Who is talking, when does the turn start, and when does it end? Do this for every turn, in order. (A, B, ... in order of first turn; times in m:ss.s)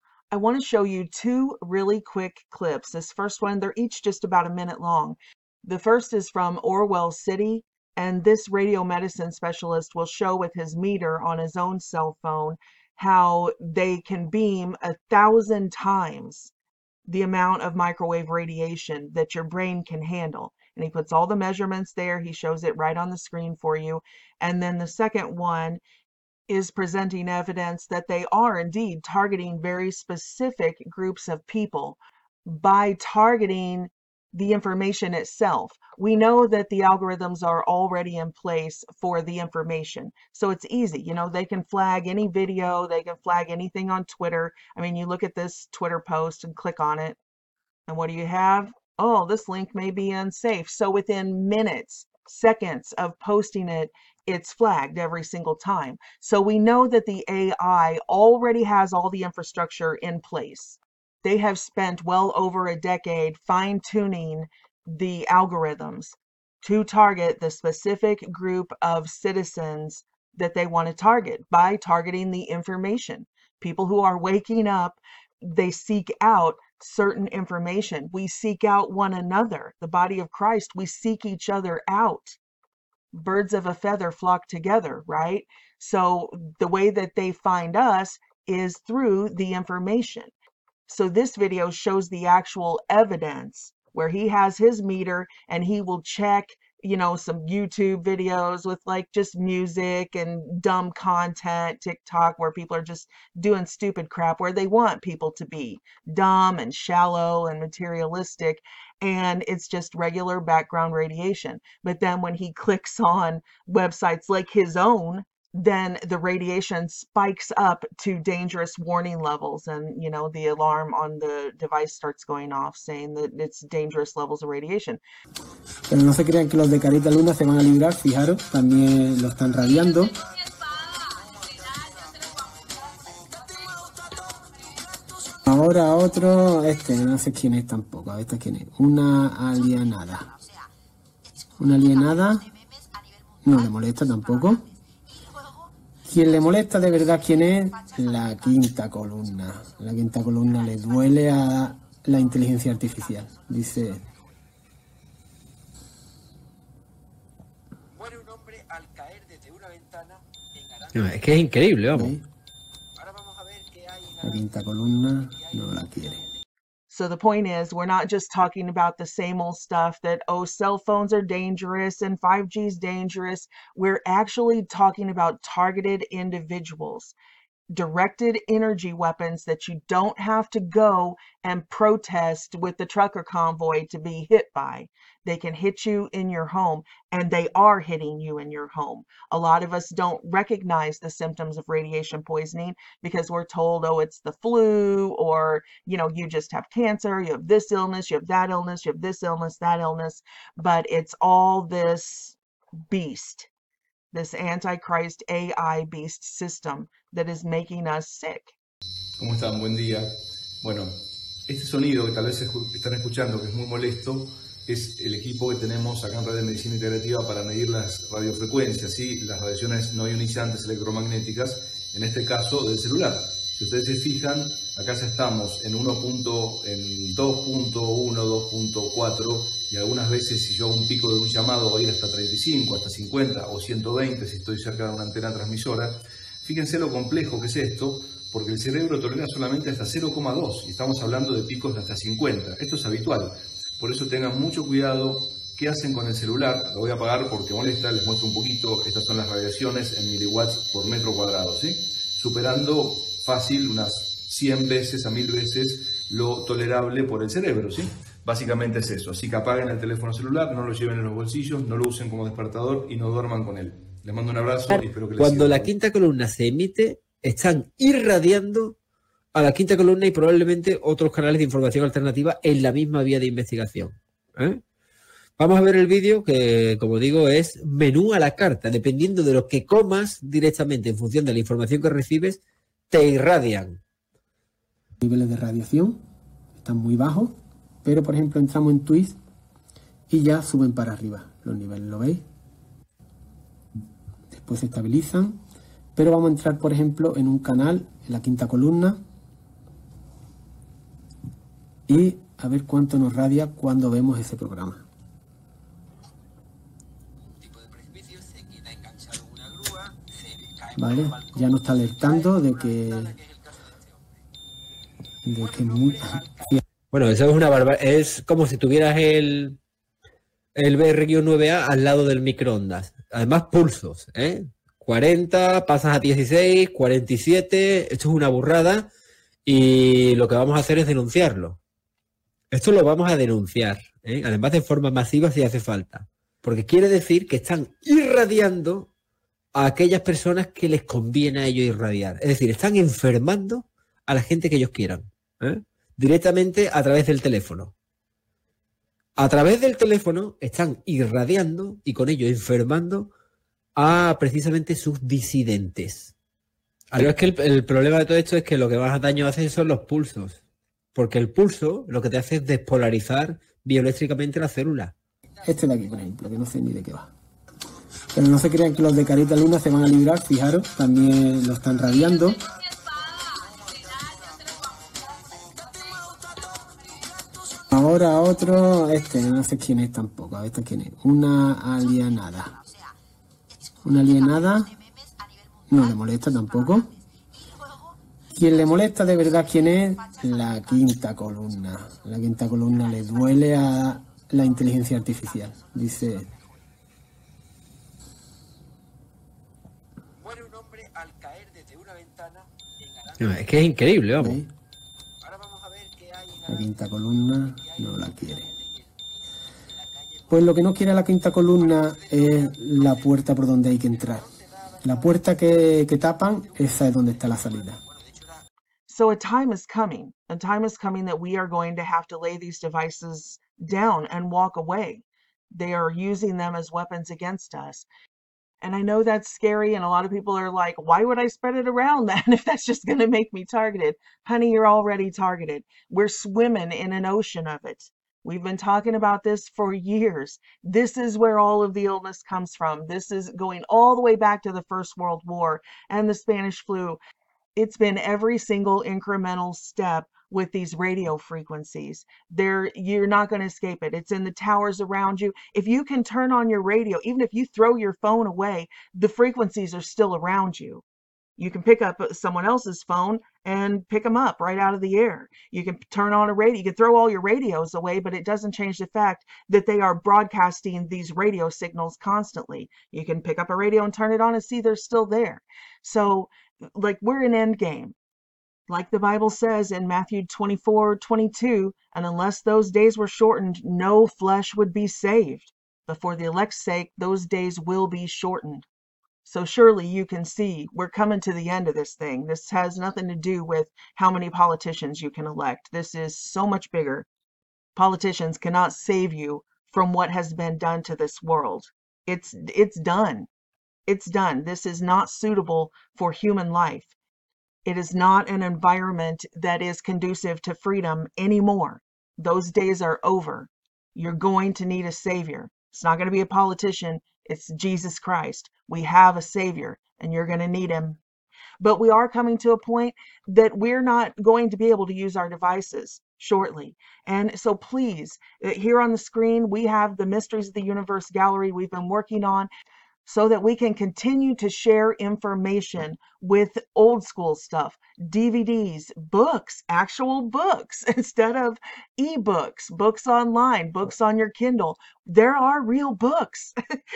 0:00.3-0:16.5 A
0:17.1-0:25.8 A
0:26.5-0:47.2 A
0:47.9-1:22.4 A
1:23.1-1:30.3 A
1:30.9-2:05.0 A
2:05.9-2:10.2 B
2:15.4-2:20.3 B
2:21.6-2:22.5 B
2:23.4-2:24.7 B
2:26.0-2:34.1 B
2:38.0-2:40.2 C
2:40.9-2:42.1 D
2:41.9-2:42.2 B
2:43.1-2:44.0 C
2:44.2-2:46.3 B
2:46.9-2:57.1 A
2:57.7-3:22.4 A
3:22.9-3:23.5 A
3:24.1-3:28.5 A
3:29.2-4:25.7 E
4:24.7-4:28.8 D
4:29.3-4:34.6 D
4:35.4-4:42.4 D
4:42.9-4:43.8 D
4:45.0-4:46.0 B
4:46.6-4:49.2 B
4:50.1-4:52.2 B
4:54.3-4:55.4 B
4:56.0-4:59.0 B
5:01.9-5:04.8 B
5:07.6-5:10.6 C
5:10.7-5:13.2 B
5:15.2-5:16.6 B
5:16.9-5:19.6 D
5:20.5-5:28.9 D
5:29.4-5:31.6 D
5:32.5-5:38.9 D
5:39.6-5:47.7 D
5:49.2-5:53.1 D
5:53.8-5:56.1 D
5:56.9-6:00.4 D
6:00.9-6:04.9 D
6:05.4-6:07.1 B
6:08.1-6:12.4 B
6:17.7-6:22.6 B
6:23.8-6:24.8 B
6:25.7-6:27.0 B
6:28.3-6:36.3 B
6:40.3-6:42.4 C
6:43.2-6:44.4 D
6:44.2-6:44.5 B
6:45.3-6:46.4 C
6:46.4-6:48.5 B
6:50.3-6:54.3 B
6:54.8-6:57.8 B
6:58.9-7:07.8 A
7:08.6-7:27.0 A
7:27.6-7:40.8 A
7:41.4-7:57.9 A
7:58.7-8:08.6 A
8:09.2-8:17.1 A
8:17.8-8:23.3 A
8:23.9-8:26.9 A
8:27.6-8:41.0 A
8:41.6-8:52.5 A
8:53.0-9:06.5 A